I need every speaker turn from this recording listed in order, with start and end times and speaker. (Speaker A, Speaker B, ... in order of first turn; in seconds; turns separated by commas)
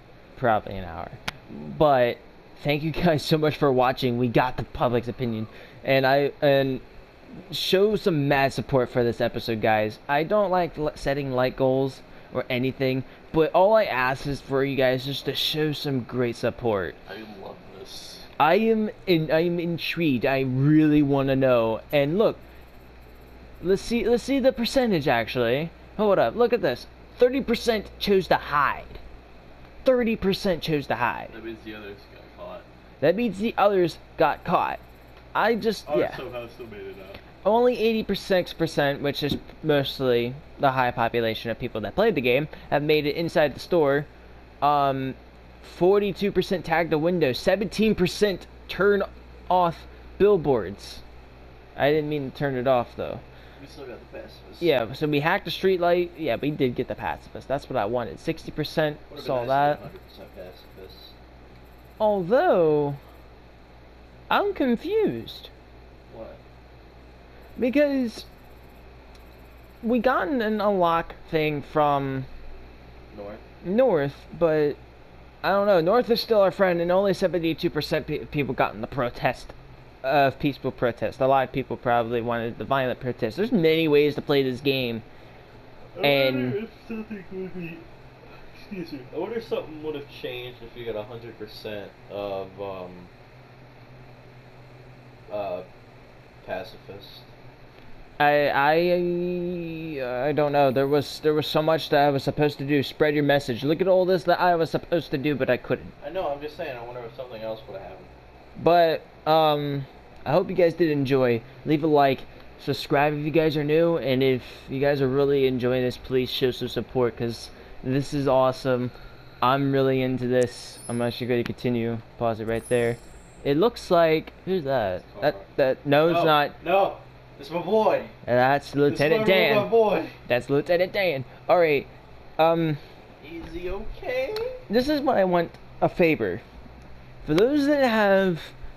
Speaker A: 0.4-6.8, Speaker A: 7.5-17.0, Speaker B: 17.1-18.3, Speaker A: 18.4-22.4, Speaker A: 23.6-29.0, Speaker A: 29.8-31.3, Speaker B: 31.3-32.7, Speaker A: 33.0-34.8, Speaker A: 35.3-36.2, Speaker B: 35.9-37.2, Speaker A: 37.4-44.1, Speaker A: 44.6-51.0, Speaker A: 51.7-53.2, Speaker B: 53.6-54.7, Speaker A: 54.6-59.8, Speaker B: 59.1-61.1, Speaker A: 62.0-63.0, Speaker A: 64.3-65.5, Speaker B: 66.1-66.4, Speaker A: 67.6-68.3, Speaker A: 69.8-72.3, Speaker B: 73.1-73.4, Speaker A: 73.6-74.8, Speaker A: 75.4-85.0, Speaker B: 85.9-87.8, Speaker A: 86.0-86.6, Speaker B: 88.5-93.1, Speaker B: 95.3-95.7, Speaker B: 96.4-97.2, Speaker A: 98.2-105.9, Speaker B: 106.0-108.1, Speaker A: 108.6-126.6, Speaker B: 125.1-125.5, Speaker B: 126.0-128.1, Speaker A: 128.2-132.8, Speaker B: 128.8-130.2, Speaker B: 133.2-134.6, Speaker A: 134.7-136.4, Speaker A: 137.2-138.5